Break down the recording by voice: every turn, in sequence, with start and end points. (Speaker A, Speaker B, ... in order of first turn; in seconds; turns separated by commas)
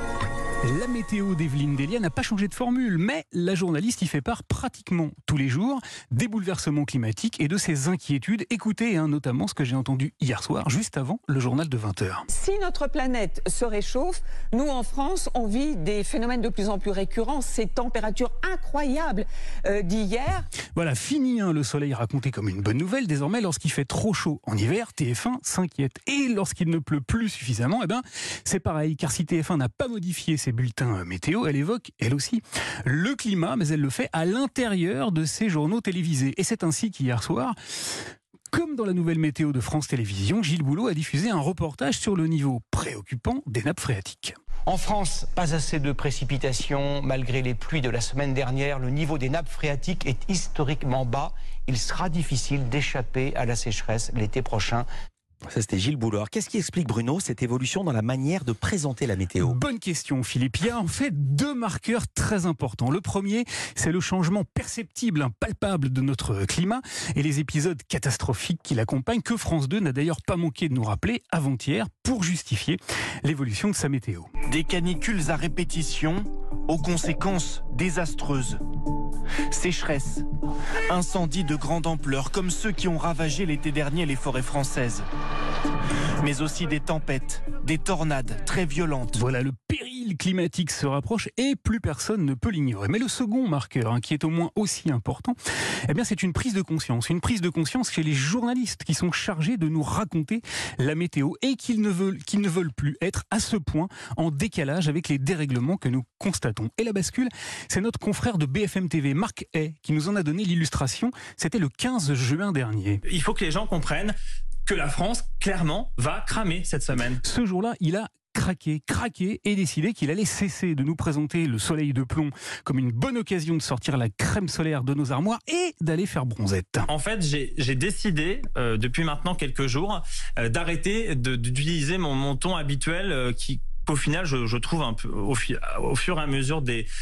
Speaker A: 0.6-12.2, Speaker B: 12.3-20.5, Speaker A: 20.7-37.5, Speaker A: 38.5-44.4, Speaker C: 44.7-54.8, Speaker D: 55.5-59.6, Speaker A: 59.4-74.3, Speaker E: 74.5-78.6, Speaker E: 79.5-80.2, Speaker E: 80.9-85.0, Speaker E: 86.2-89.2, Speaker A: 89.1-95.3, Speaker A: 95.9-113.0, Speaker F: 113.0-117.2, Speaker A: 117.2-126.9, Speaker F: 126.9-136.8